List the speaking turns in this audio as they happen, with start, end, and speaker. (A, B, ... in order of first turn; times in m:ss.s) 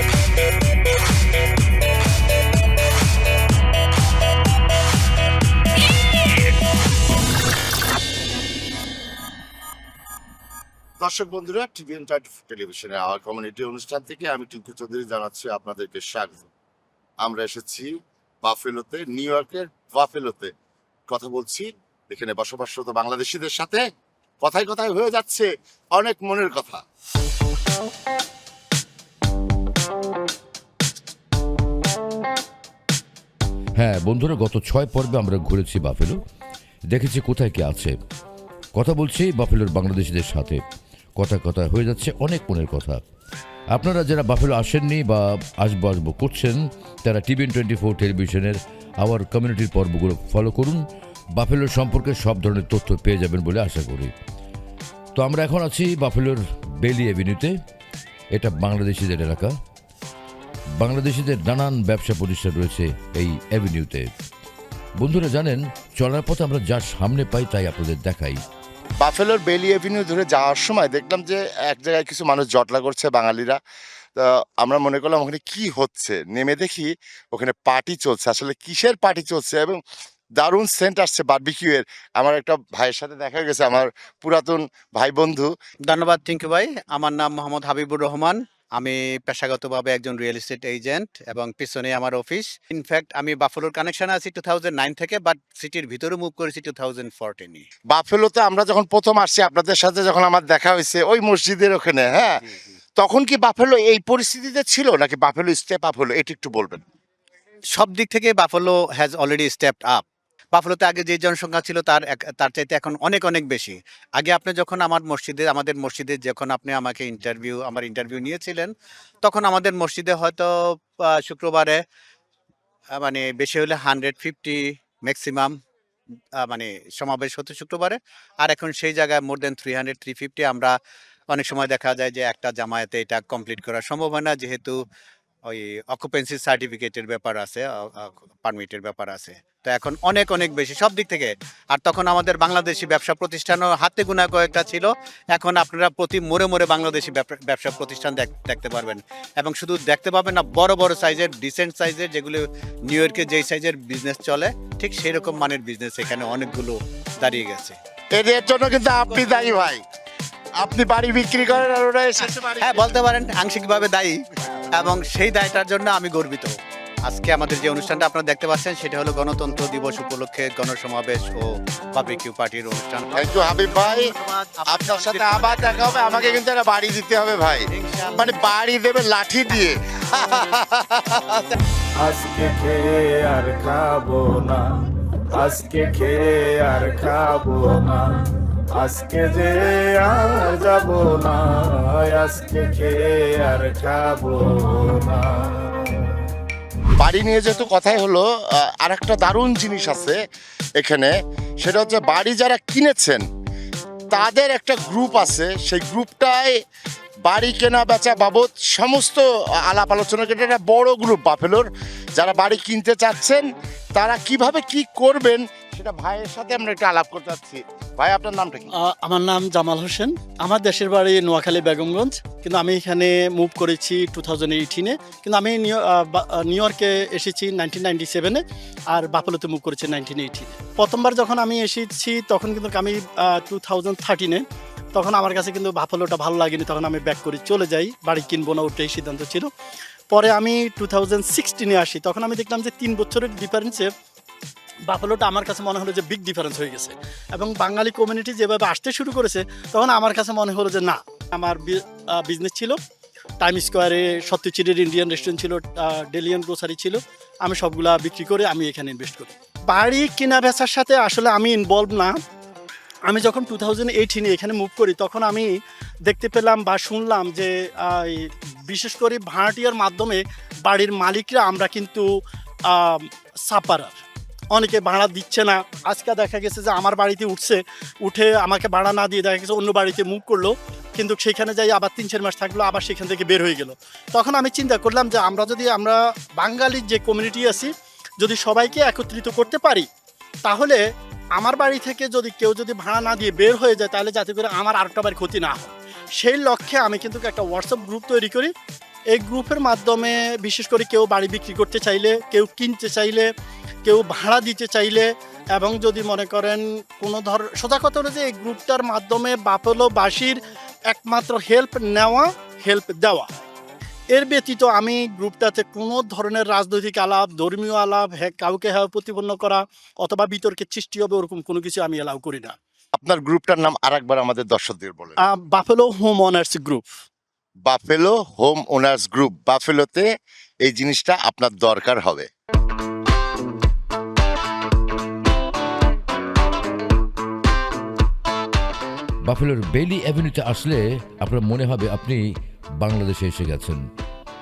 0:11.0-0:16.5 A
0:17.2-0:20.5 A
0:21.1-0:23.8 A
0:24.4-0:26.8 A
0:33.8-0:36.2 B
0:36.9-0:38.0 B
0:38.8-0:40.6 B
0:41.2-0:43.0 B
0:43.7-0:50.8 B
0:51.4-0:54.1 B
0:55.2-0:57.6 B
0:58.3-0:59.6 B
1:00.8-1:04.1 B
1:05.0-1:08.4 B
1:09.0-1:13.6 A
1:14.2-1:19.8 A
1:20.4-1:25.5 A
1:25.9-1:37.7 C
1:37.9-1:42.4 A
1:43.0-1:46.8 A
1:47.8-1:50.0 C
1:50.6-2:01.8 C
2:03.0-2:05.6 C
2:06.4-2:10.8 C
2:11.3-2:14.8 C
2:15.5-2:37.8 C
2:38.1-2:39.8 A
2:40.6-2:43.0 A
2:42.6-2:44.2 C
2:44.7-2:46.6 C
2:47.1-2:56.4 C
2:53.1-2:54.1 A
2:54.7-3:01.4 A
2:57.7-2:58.3 C
3:02.0-3:04.6 D
3:05.3-3:08.2 D
3:08.8-3:15.6 D
3:17.0-3:20.2 A
3:20.8-3:23.2 A
3:24.1-3:26.6 A
3:27.2-3:38.7 A
3:38.8-3:59.5 E
4:00.1-4:03.9 E
4:04.9-4:12.8 E
4:13.4-4:22.2 E
4:23.1-4:25.5 E
4:26.1-4:32.0 E
4:32.7-4:34.0 E
4:34.6-4:49.9 E
4:50.5-4:50.8 E
4:51.4-4:58.5 E
4:59.1-5:03.3 E
5:03.8-5:13.3 E
5:14.2-5:22.6 E
5:23.0-5:25.2 A
5:25.2-5:26.9 E
5:27.6-5:30.1 A
5:30.6-5:32.3 A
5:39.2-5:42.2 B
5:42.8-5:43.8 B